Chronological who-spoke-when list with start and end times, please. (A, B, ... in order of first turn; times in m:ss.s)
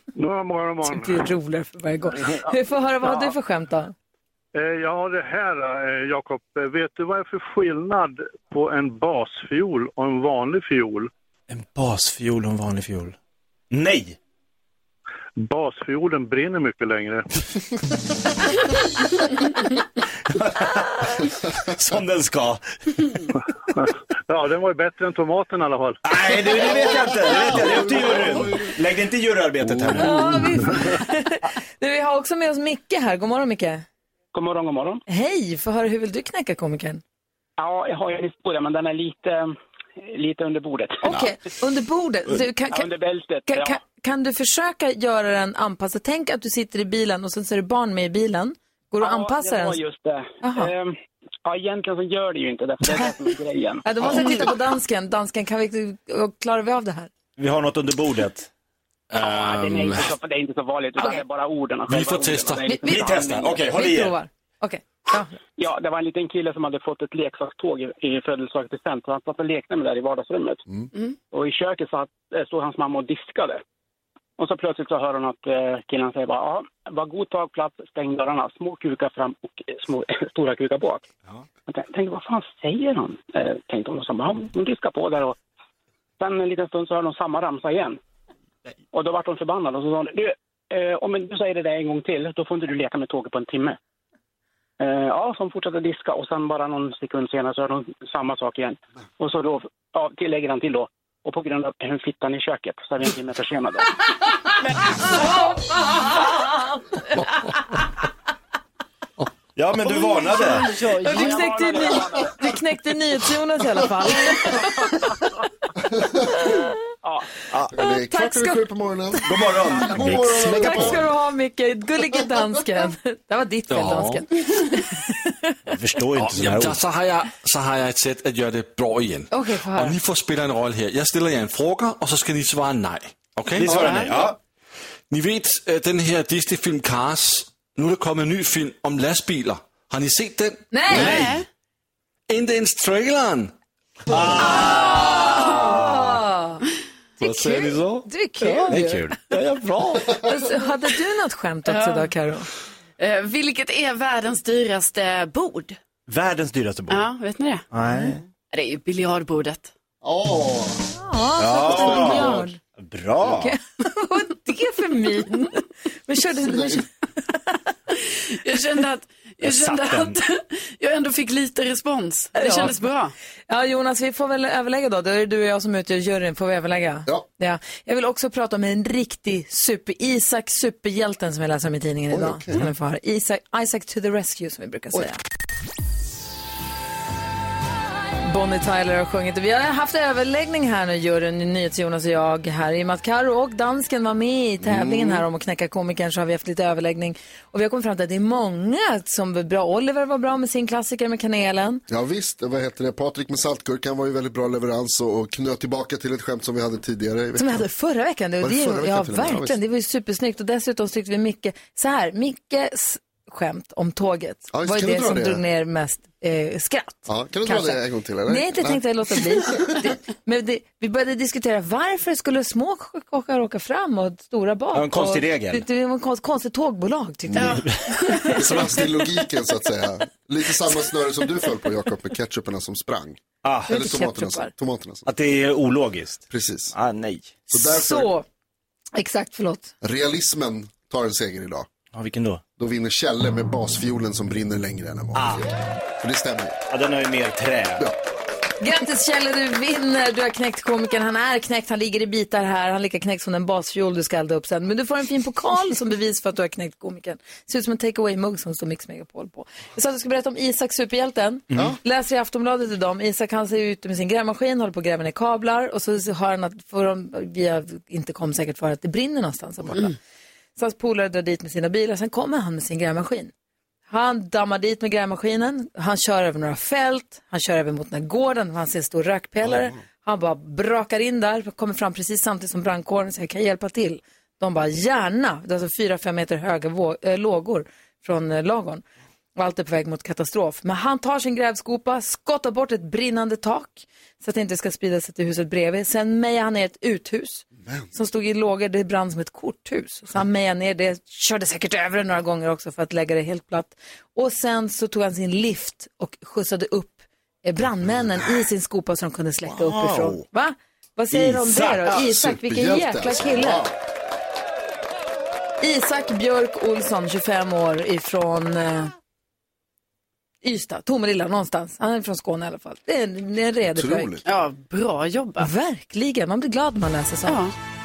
0:00.2-0:01.2 A
0:00.8-0:03.9 B
0:04.6-0:11.1 A
0:11.5-0:13.2 C
0:13.7-0:14.2 C
0:15.4-0:17.3 A
0:20.3-0:23.1 C
0:23.8-0:26.0 A
0:26.0-0:30.5 C
0:26.5-0:28.7 D
0:29.6-0:30.2 D
0:30.0-0:33.8 B
0:34.3-0:35.0 E
0:35.1-0:37.0 B
0:37.6-0:41.3 E
0:41.0-0:42.9 B
0:42.7-0:43.8 E
0:43.5-0:49.8 B
0:49.0-0:54.4 E
0:50.4-0:50.7 B
0:53.8-0:57.1 B
0:57.4-0:58.5 C
0:59.1-1:00.2 F
0:59.2-1:03.5 E
1:01.9-1:03.6 F
1:02.7-1:05.3 B
1:02.9-1:04.2 C
1:05.6-1:10.6 E
1:11.3-1:13.6 E
1:14.4-1:21.1 E
1:21.7-1:25.4 E
1:26.2-1:28.0 E
1:28.9-1:33.8 E
1:34.8-1:44.0 E
1:45.0-1:47.6 B
1:49.6-1:50.8 C
1:50.2-1:52.0 G
1:50.3-1:55.1 B
1:51.1-1:52.4 E
1:54.4-1:54.9 E
1:55.9-1:56.2 D
1:57.0-1:57.3 E
1:57.7-2:01.0 D
1:57.8-1:58.6 B
1:59.3-2:01.0 C
2:00.1-2:05.6 B
2:03.7-2:04.2 F
2:03.9-2:04.1 C
2:05.7-2:06.8 C
2:06.2-2:14.3 F
2:09.3-2:10.0 B
2:13.6-2:14.4 C
2:15.1-2:21.4 F
2:20.7-2:21.1 B
2:20.9-2:21.4 C
2:21.0-2:21.4 G
2:22.3-2:23.5 F
2:24.1-2:26.1 C
2:24.1-2:24.4 F
2:24.4-2:26.6 B
2:27.2-2:28.1 F
2:27.2-2:29.4 B
2:28.5-2:30.4 C
2:30.1-2:32.5 B
2:31.7-2:32.1 G
2:33.0-2:35.8 G
2:36.1-2:37.0 C
2:36.9-2:37.6 G
2:37.7-2:38.2 C
2:37.9-2:38.2 B
2:38.5-2:39.7 G
2:40.0-2:40.9 D
2:41.0-2:42.6 B
2:41.4-2:43.5 C
2:41.6-2:42.5 D
2:43.3-2:46.9 B
2:46.5-2:46.8 D
2:47.9-2:53.1 G
2:49.4-2:50.2 C
2:52.4-2:52.9 B
2:53.5-3:05.2 B
3:02.1-3:02.6 D
3:08.2-3:21.8 B
3:14.6-3:15.2 D
3:21.9-3:27.6 D
3:27.4-3:48.8 B
3:28.4-3:29.6 D
3:34.5-3:35.4 D
3:37.1-3:39.7 D
3:44.7-3:45.6 C
3:47.3-3:47.6 D
3:47.4-3:48.5 G
3:48.4-3:55.1 D
3:53.4-3:53.8 C
3:53.7-3:54.5 B
3:55.1-3:57.5 C
3:56.3-3:56.7 D
3:57.5-3:58.1 D
3:57.5-3:58.3 B
3:59.0-3:59.7 B
3:59.8-4:01.7 D
4:01.9-4:02.4 C
4:02.6-4:05.5 D
4:05.2-4:05.5 C
4:06.0-4:06.6 D
4:06.7-4:07.9 C
4:08.6-4:29.9 B
4:30.6-4:33.3 B
4:33.9-4:48.8 B
4:39.4-4:39.8 D
4:49.4-5:13.6 B
4:57.6-4:57.9 D
5:09.7-5:10.2 C
5:11.1-5:12.0 C
5:11.9-5:13.8 D
5:15.6-5:18.9 B
5:20.4-5:24.2 B
5:23.7-5:24.2 D
5:24.2-5:25.5 G
5:25.4-5:27.5 B
5:27.3-5:27.5 G